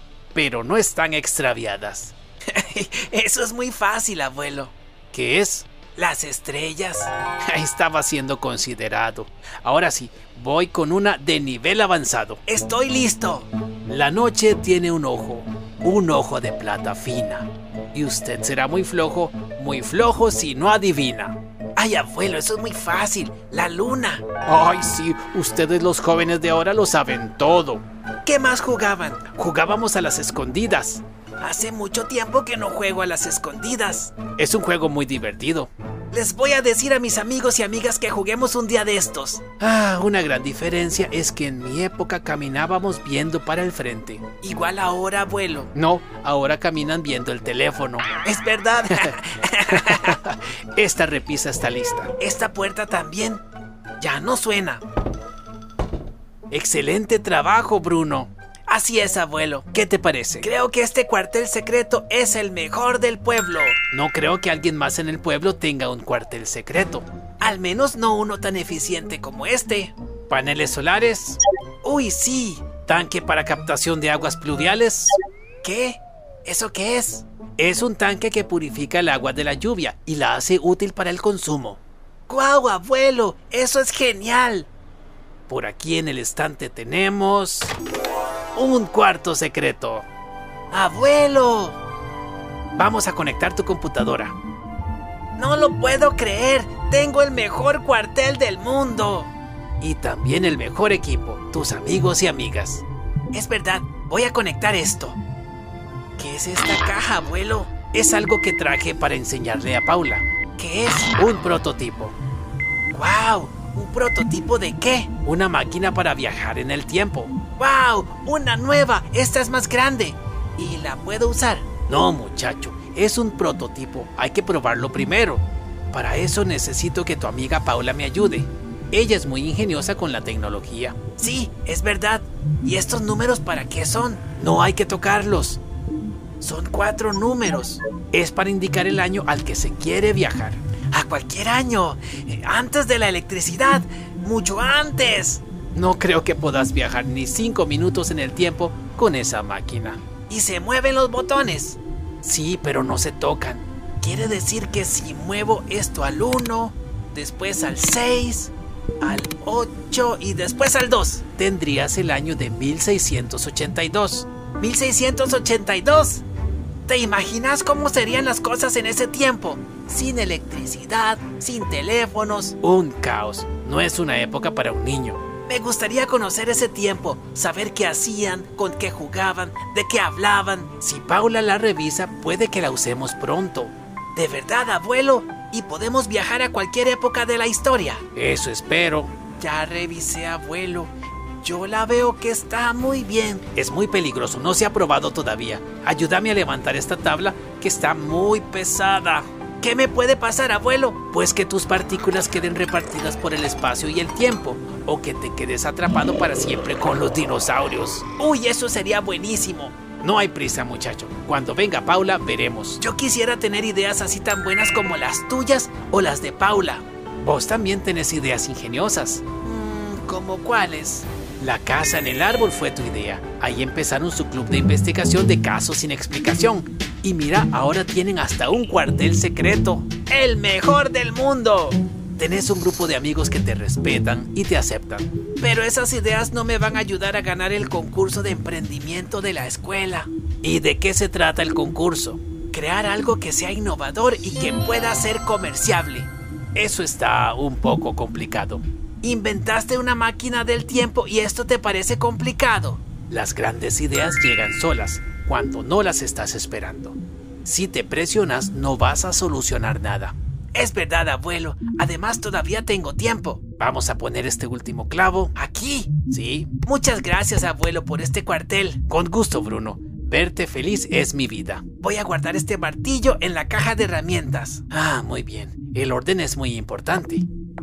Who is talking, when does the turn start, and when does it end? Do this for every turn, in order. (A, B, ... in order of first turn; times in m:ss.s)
0:00.3-0:53.4 A
0:54.0-0:54.8 A
0:56.5-1:24.7 A
1:25.5-1:27.7 A
1:28.5-1:30.0 A
1:30.7-1:31.8 A
1:32.8-1:34.3 A
1:35.4-1:45.2 A
1:46.2-1:52.1 A
1:52.9-2:15.6 A
2:16.4-2:46.2 A
2:46.9-3:10.9 A
3:11.4-4:37.2 A